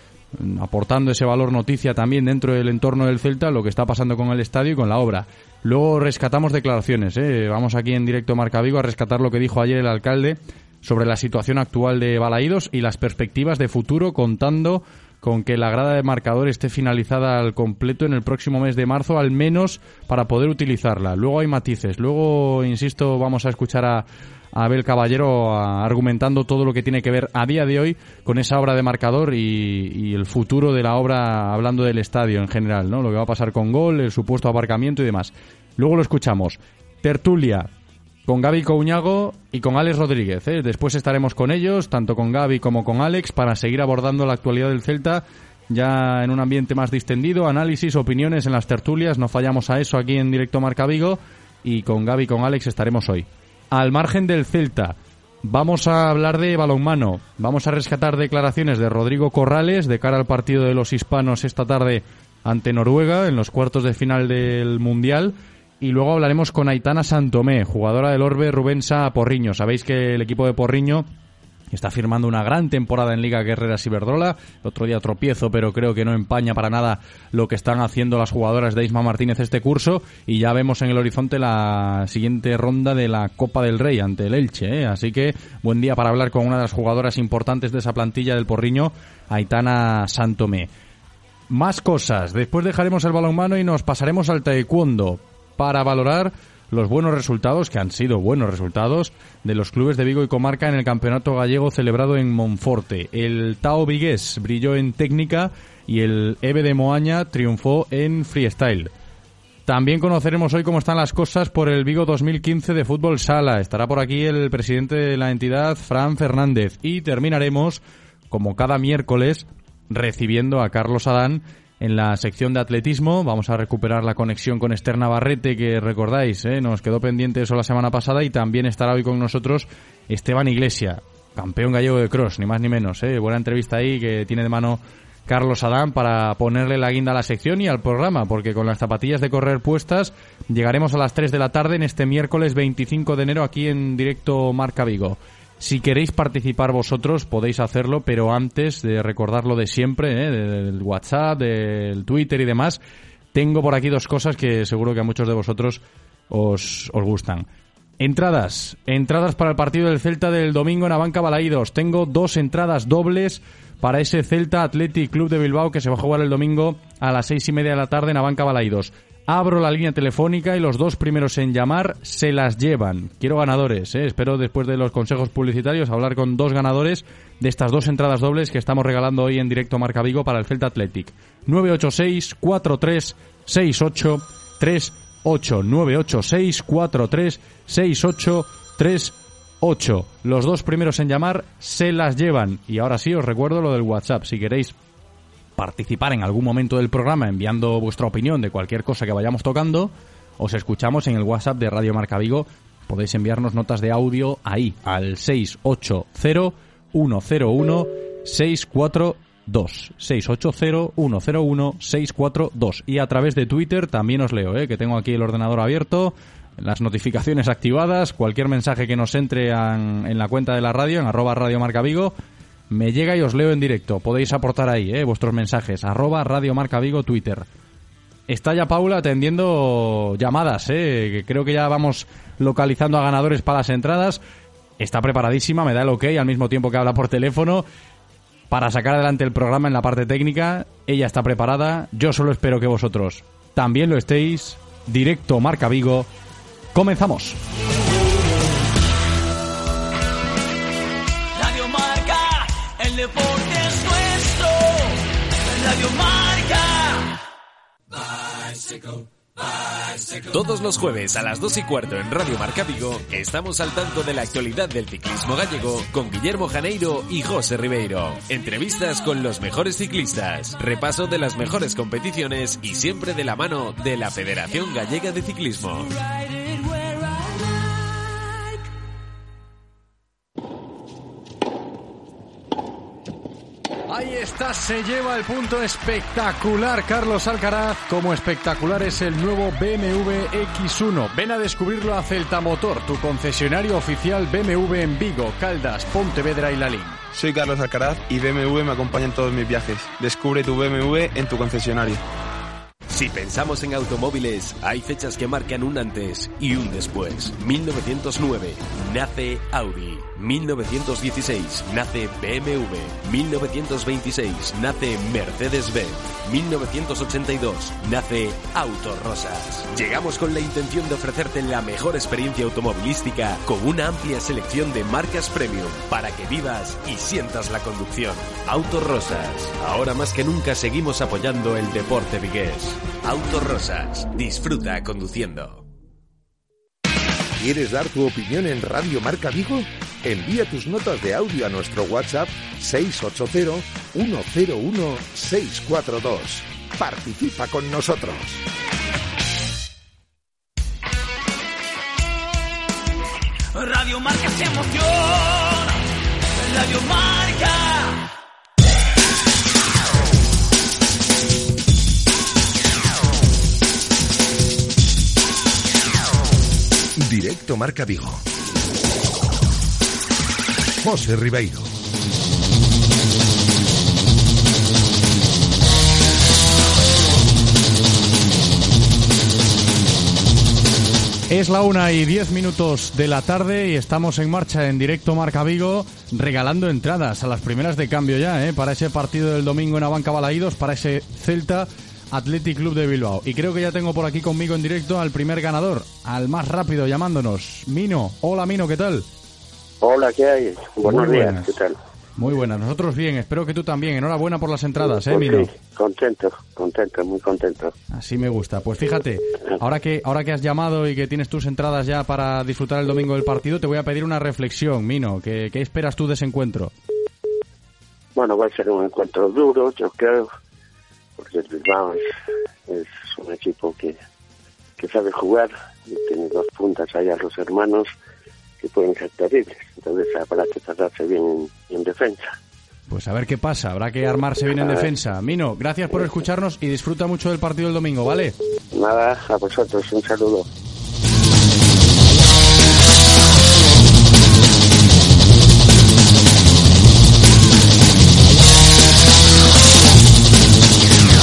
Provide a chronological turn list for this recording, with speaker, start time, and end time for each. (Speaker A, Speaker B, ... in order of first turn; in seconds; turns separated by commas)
Speaker A: 0.3-37.7, Speaker A: 38.2-71.1, Speaker A: 71.7-90.7, Speaker A: 91.5-108.9, Speaker A: 109.7-152.8, Speaker A: 153.3-157.5, Speaker A: 158.0-194.8, Speaker A: 195.6-222.1, Speaker A: 222.7-227.5, Speaker A: 228.3-234.2, Speaker A: 234.8-237.7, Speaker A: 238.5-246.1, Speaker A: 246.7-247.4, Speaker B: 251.3-257.1, Speaker C: 260.2-275.9, Speaker A: 283.9-297.0, Speaker D: 297.1-302.0, Speaker C: 302.9-335.6, Speaker E: 337.4-348.4, Speaker B: 353.5-355.7, Speaker B: 356.4-358.0, Speaker E: 367.0-368.2, Speaker E: 370.8-371.7, Speaker A: 381.3-399.1, Speaker F: 399.8-401.8, Speaker A: 400.8-401.5, Speaker A: 402.2-405.5, Speaker F: 405.1-407.7, Speaker A: 407.9-416.7, Speaker F: 418.1-420.3, Speaker F: 421.2-422.1, Speaker F: 422.7-424.0, Speaker F: 424.8-427.9, Speaker F: 428.6-432.4, Speaker A: 432.9-438.3, Speaker F: 438.7-440.5